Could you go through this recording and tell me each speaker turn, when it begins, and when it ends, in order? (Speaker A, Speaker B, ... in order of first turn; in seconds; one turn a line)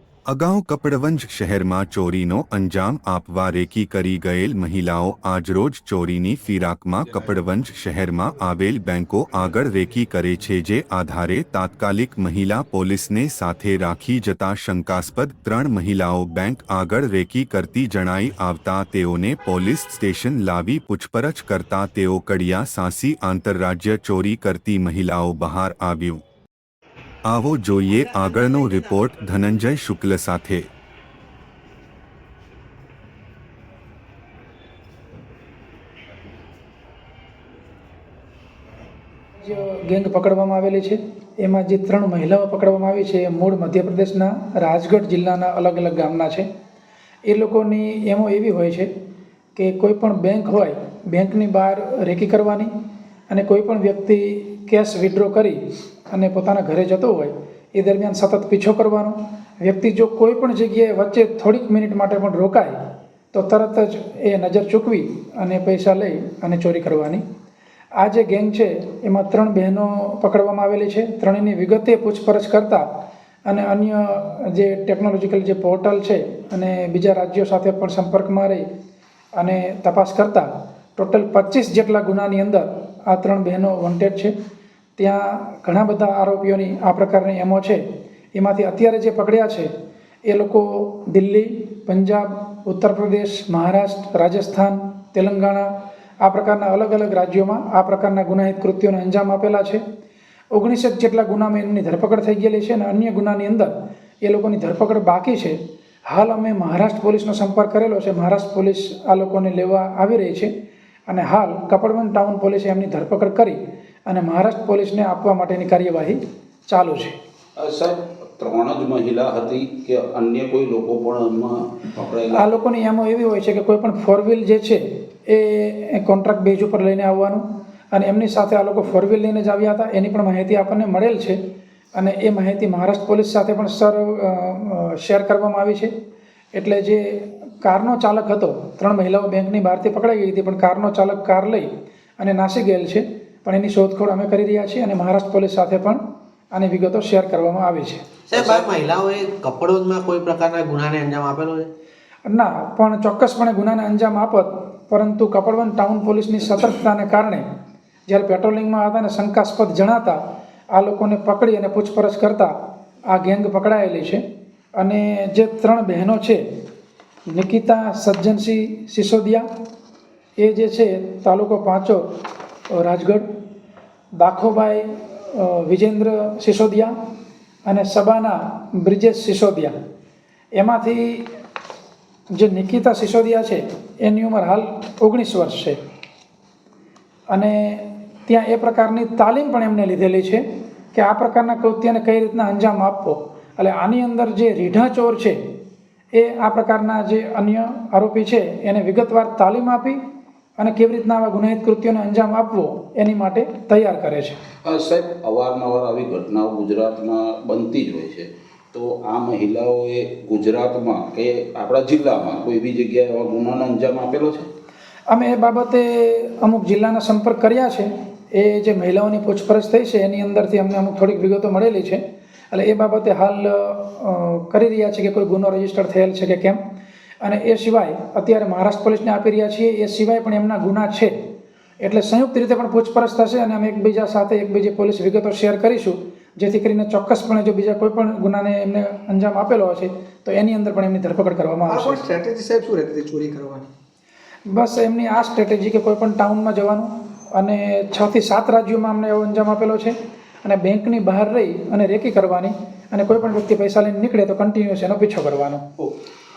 Speaker A: 0.3-26.2
Speaker A: 27.3-30.6
Speaker B: 39.4-46.5
Speaker B: 47.3-48.9
Speaker B: 49.5-52.7
Speaker B: 53.3-62.8
Speaker B: 63.3-67.2
Speaker B: 68.0-72.8
Speaker B: 73.5-78.6
Speaker B: 79.4-84.3
Speaker B: 85.0-87.8
Speaker B: 88.3-89.7
Speaker B: 90.3-95.7
Speaker B: 96.2-99.8
Speaker B: 100.5-105.6
Speaker B: 106.1-110.5
Speaker B: 111.1-117.2
Speaker C: 117.6-122.5
Speaker B: 122.3-131.4
Speaker B: 131.9-135.9
Speaker B: 136.5-146.0
Speaker B: 146.5-148.0
Speaker D: 148.3-151.7
Speaker C: 148.3-148.6
Speaker B: 152.2-157.4
Speaker B: 158.1-160.2
Speaker B: 160.7-162.5
Speaker B: 163.1-164.2
Speaker B: 164.8-166.4
Speaker B: 167.3-169.4
Speaker B: 170.4-172.1
Speaker B: 172.7-173.2
Speaker B: 174.2-176.9
Speaker B: 177.7-179.7
Speaker B: 180.6-181.3
Speaker B: 182.3-185.8
Speaker B: 187.3-195.4
Speaker B: 196.1-200.0
Speaker B: 200.6-204.4
Speaker C: 204.6-214.5
Speaker B: 215.1-226.6
Speaker B: 227.2-231.2
Speaker B: 231.8-242.0
Speaker E: 241.7-243.7
Speaker B: 244.5-255.6